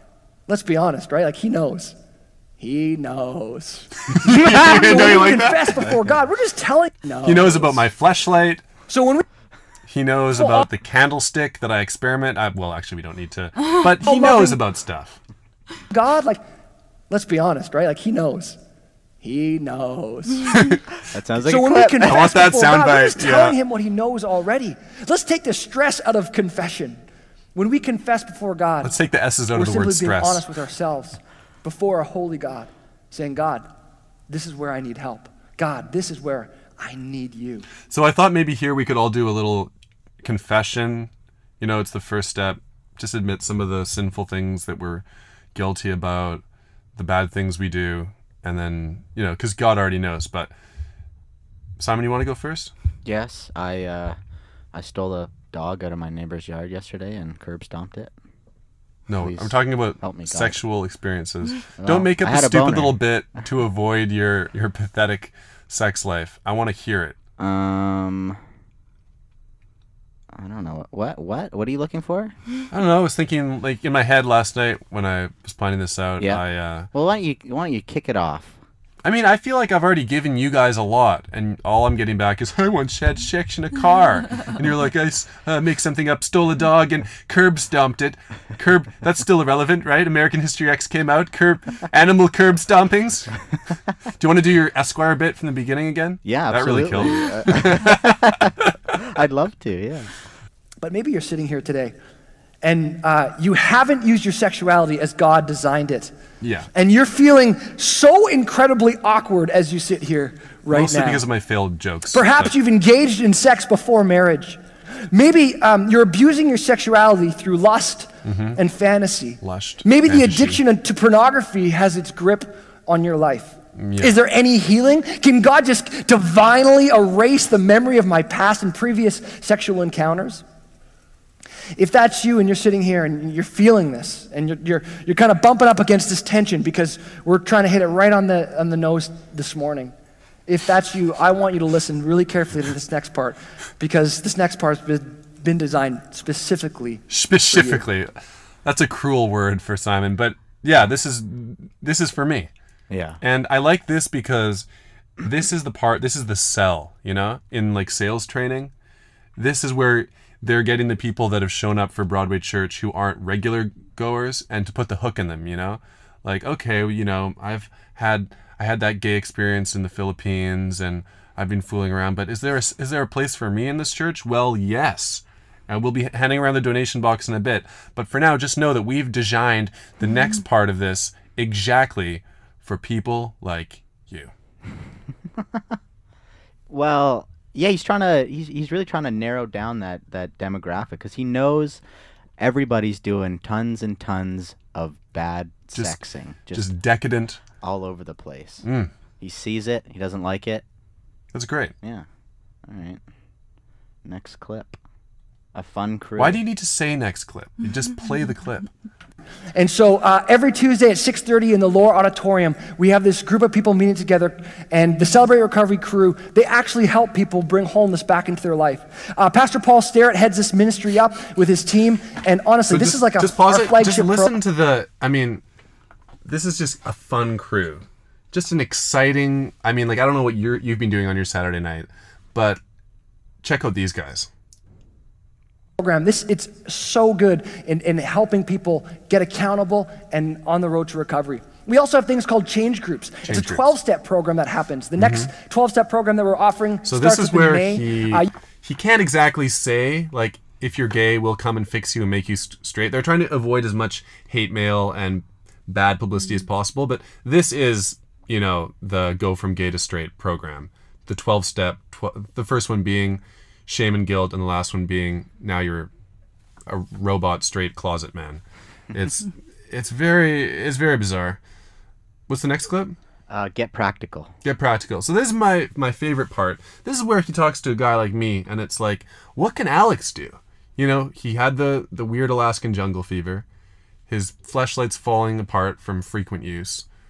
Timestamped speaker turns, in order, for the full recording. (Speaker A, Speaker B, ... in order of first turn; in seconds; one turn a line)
Speaker A: 0.5-1.9
Speaker A: 2.6-7.8
Speaker B: 4.1-6.1
Speaker B: 7.2-8.6
Speaker A: 8.9-9.2
Speaker B: 9.9-15.2
Speaker A: 10.3-10.7
Speaker A: 14.0-14.6
Speaker A: 15.9-16.4
Speaker A: 17.1-18.6
Speaker A: 19.2-20.8
Speaker C: 21.1-22.3
Speaker A: 21.4-27.0
Speaker B: 22.0-23.6
Speaker A: 27.5-28.9
Speaker B: 28.8-30.5
Speaker A: 29.5-33.7
Speaker A: 34.3-37.7
Speaker B: 37.9-39.7
Speaker B: 40.2-46.4
Speaker B: 46.9-50.5
Speaker B: 51.8-52.7
Speaker C: 53.0-54.2
Speaker C: 54.7-58.1
Speaker B: 59.1-67.2
Speaker C: 59.2-60.6
Speaker C: 61.8-63.0
Speaker C: 67.4-68.4
Speaker C: 70.3-72.3
Speaker B: 72.7-76.9
Speaker C: 76.2-78.6
Speaker B: 79.0-93.4
Speaker B: 94.2-98.7
Speaker C: 96.2-100.1
Speaker A: 100.8-101.9
Speaker A: 102.6-106.1
Speaker B: 106.4-106.7
Speaker A: 106.7-111.2
Speaker B: 110.7-112.5
Speaker A: 112.1-114.6
Speaker A: 115.1-130.4
Speaker B: 118.2-118.6
Speaker B: 119.4-120.6
Speaker B: 123.8-124.2
Speaker A: 131.8-139.9
Speaker A: 140.5-147.8
Speaker B: 147.1-152.5
Speaker C: 152.9-153.2
Speaker B: 153.2-154.7
Speaker B: 155.2-158.7
Speaker B: 159.3-184.3
Speaker C: 185.4-185.8
Speaker C: 186.7-191.8
Speaker C: 192.4-196.7
Speaker B: 196.5-197.4
Speaker C: 197.6-198.6
Speaker B: 198.6-198.9
Speaker C: 199.2-200.6
Speaker B: 201.3-201.7
Speaker C: 202.7-203.0
Speaker C: 204.0-204.8
Speaker C: 205.5-206.4
Speaker B: 206.2-208.7
Speaker A: 209.5-224.3
Speaker B: 222.7-225.4
Speaker B: 226.2-232.6
Speaker B: 233.4-234.3
Speaker A: 235.8-248.3
Speaker B: 243.2-243.7
Speaker B: 245.0-245.3
Speaker B: 246.8-265.9
Speaker B: 266.7-271.4
Speaker B: 272.3-272.9
Speaker C: 273.3-274.3
Speaker B: 274.4-283.4
Speaker B: 284.1-286.8